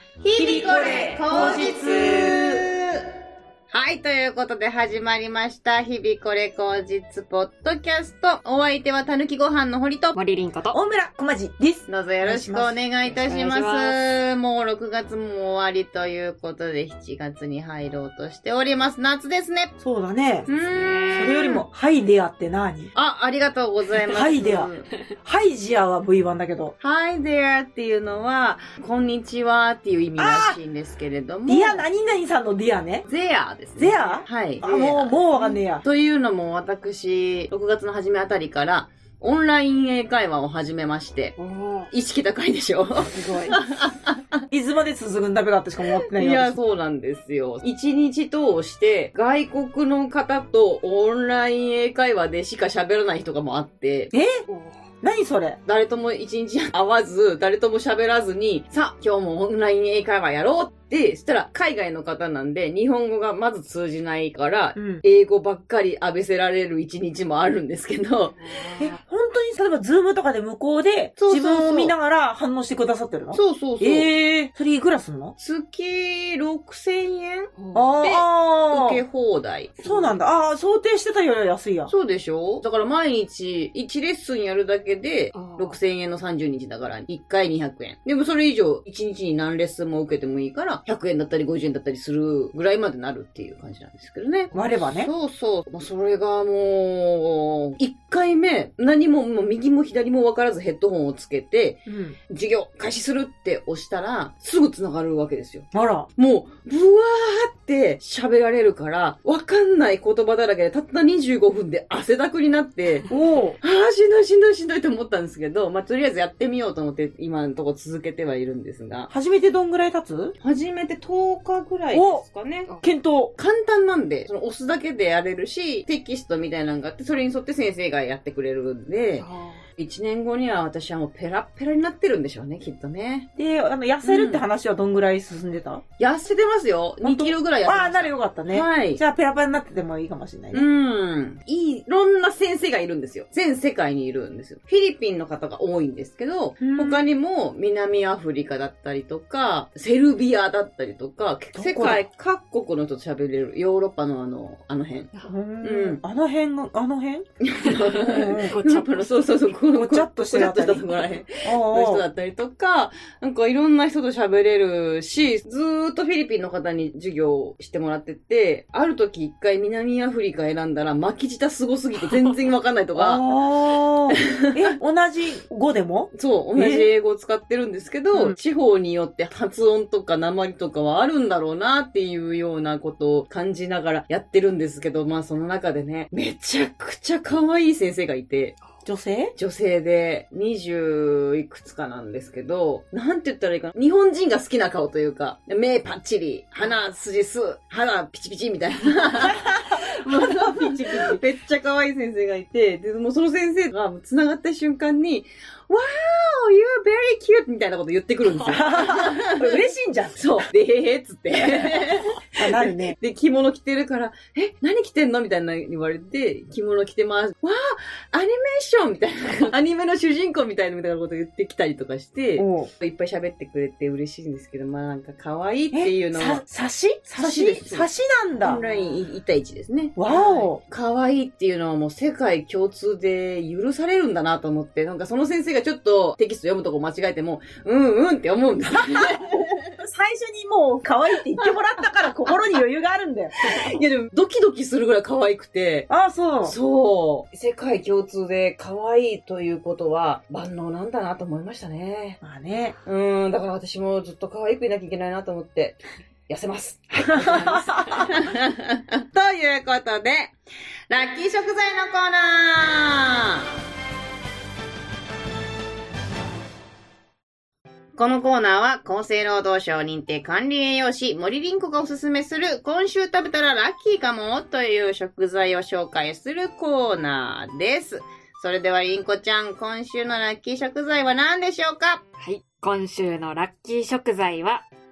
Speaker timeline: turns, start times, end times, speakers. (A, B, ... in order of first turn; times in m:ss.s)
0:00.2-0:03.0 A
0:00.3-0:02.6 B
0:03.7-0:10.2 A
0:10.1-0:10.8 C
0:10.7-0:12.8 B
0:11.9-0:19.7 A
0:13.0-0:14.0 C
0:19.8-0:20.5 B
0:20.5-0:21.4 C
0:20.5-0:21.6 A
0:21.1-0:22.9 B
0:23.0-0:24.9 A
0:24.1-0:24.7 B
0:25.2-0:26.7 B
0:26.8-0:31.8 A
0:30.2-0:30.6 B
0:31.5-0:33.1 B
0:33.1-0:41.4 A
0:33.8-0:35.8 B
0:41.4-0:41.9 C
0:41.9-0:44.2 A
0:43.0-0:43.6 C
0:44.5-0:46.6 B
0:45.9-0:54.1 A
0:54.1-0:54.4 B
0:54.5-0:54.8 C
0:55.0-0:55.6 B
0:55.7-1:08.4 A
1:04.8-1:05.0 B
1:08.4-1:09.0 C
1:08.8-1:15.4 B
1:11.2-1:11.9 A
1:13.3-1:14.1 A
1:15.4-1:19.7 A
1:17.6-1:18.0 C
1:17.7-1:19.0 B
1:19.8-1:20.2 C
1:19.8-1:21.9 B
1:21.9-1:53.1 A
1:25.3-1:25.8 C
1:34.5-1:34.8 C
1:34.5-1:35.1 B
1:41.9-1:42.2 B
1:45.7-1:46.1 B
1:53.1-1:53.6 B
1:53.6-1:59.1 A
1:59.1-2:00.4 B
2:00.4-2:02.7 A
2:01.9-2:02.2 B
2:02.8-2:03.3 B
2:03.4-2:09.3 A
2:09.2-2:09.7 C
2:09.8-2:13.3 A
2:13.4-2:15.8 B
2:14.0-2:14.5 A
2:16.0-2:19.0 A
2:17.0-2:20.7 B
2:20.5-2:36.0 A
2:26.6-2:27.0 B
2:31.6-2:32.0 B
2:35.3-2:37.3 B
2:37.4-2:53.2 A
2:37.6-2:39.6 C
2:38.0-2:38.5 B
2:39.7-2:40.9 B
2:41.4-2:42.0 B
2:53.0-2:56.9 B
2:54.1-2:54.8 A
2:56.1-3:08.6 A
3:08.8-3:09.3 B
3:09.4-3:29.6 A
3:19.3-3:21.2 B
3:28.5-3:30.5 B
3:30.2-3:46.4 A
3:31.4-3:33.0 B
3:42.4-3:42.7 B
3:45.7-3:48.6 B
3:47.1-3:47.9 A
3:48.4-3:59.7 A
3:48.4-3:48.9 C
3:50.0-3:50.6 B
3:50.1-3:50.5 C
3:59.8-4:03.3 B
4:03.4-4:05.9 A
4:05.9-4:06.6 B
4:06.4-4:12.2 A
4:12.2-4:12.8 B
4:12.9-4:20.3 A
4:17.0-4:18.3 B
4:20.9-4:23.5 A
4:28.0-4:42.0 A
4:42.2-4:44.7 C